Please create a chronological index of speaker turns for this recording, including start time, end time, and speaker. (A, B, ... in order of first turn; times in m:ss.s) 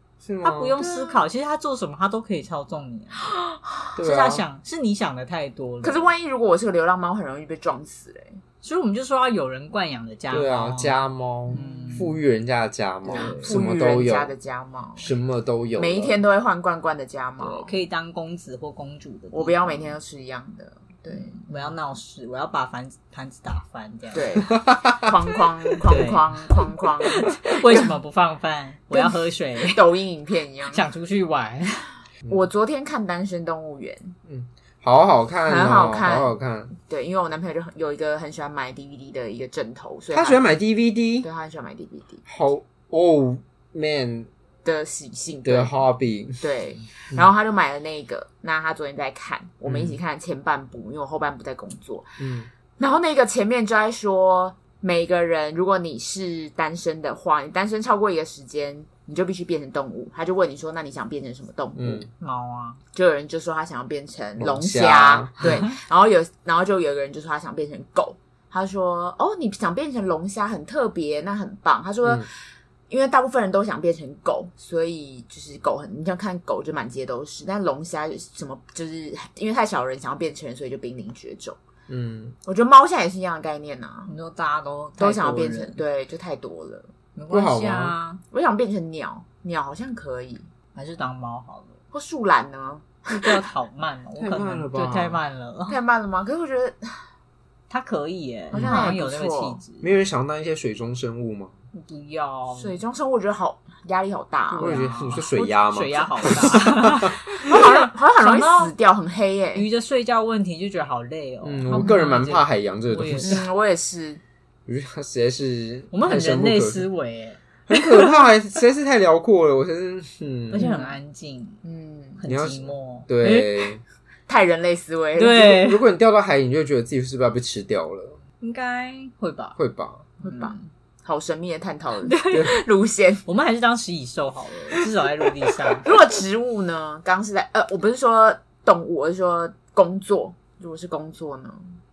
0:00.2-0:00.8 A
0:00.4-0:03.3 B
0:00.8-0:01.2 C
0:03.2-0:03.9 C
0:04.0-0:04.4 A
0:04.0-0:06.1 B
0:05.8-0:08.4 C
0:08.6-0:11.0 B
0:10.3-0:14.3 A
0:11.5-0:12.1 C
0:11.5-0:12.2 B
0:13.1-0:13.6 B
0:13.1-0:15.1 C
0:15.0-0:16.2 A
0:15.8-0:17.7 C
0:17.4-0:20.0 B
0:19.3-0:21.5 C
0:21.1-0:24.5 B
0:24.1-0:27.9 C
0:24.5-0:25.1 A
0:25.8-0:29.8 B
0:28.9-0:30.8 C
0:30.7-0:31.9 B
0:32.3-0:34.2 C
0:34.3-0:36.7 A
0:35.5-0:40.4 C
0:40.1-0:41.3 A
0:41.2-0:42.2 C
0:42.3-0:44.3 A
0:44.6-0:45.7 C
0:45.4-0:46.5 A
0:46.4-0:52.1 C
0:49.6-0:50.0 A
0:52.2-0:52.5 A
0:52.8-1:02.1 C
1:01.8-1:02.1 A
1:02.2-1:02.8 B
1:03.0-1:12.3 C
1:04.4-1:05.6 A
1:05.4-1:05.7 B
1:12.9-1:21.6 C
1:21.9-1:22.4 A
1:22.5-1:24.1 C
1:24.1-1:25.8 B
1:25.0-1:26.9 C
1:27.2-1:28.2 B
1:27.3-1:28.0 A
1:28.3-1:30.5 C
1:30.8-1:31.8 B
1:31.9-1:33.5 C
1:33.1-1:35.8 B
1:34.2-1:35.2 A
1:35.7-1:36.9 C
1:37.7-1:39.9 B
1:38.5-1:39.0 A
1:38.5-1:39.6 C
1:39.8-1:41.5 A
1:41.7-1:42.8 B
1:42.5-1:44.8 C
1:44.5-1:48.7 B
1:44.6-1:47.2 A
1:47.3-1:49.7 C
1:49.6-1:53.4 B
1:51.4-1:53.4 A
1:53.2-1:54.2 C
1:54.7-1:56.9 A
1:55.9-1:58.2 B
1:57.7-2:00.7 A
2:00.5-2:01.6 B
2:00.6-2:01.0 C
2:01.6-2:02.2 C
2:02.2-2:03.7 B
2:02.3-2:03.8 A
2:04.3-2:05.6 C
2:05.2-2:05.8 B
2:05.6-2:08.2 A
2:08.4-2:09.6 B
2:09.6-2:10.1 A
2:10.2-2:10.7 B
2:10.2-2:13.2 C
2:12.1-2:12.5 B
2:13.3-2:15.9 B
2:15.8-2:21.6 C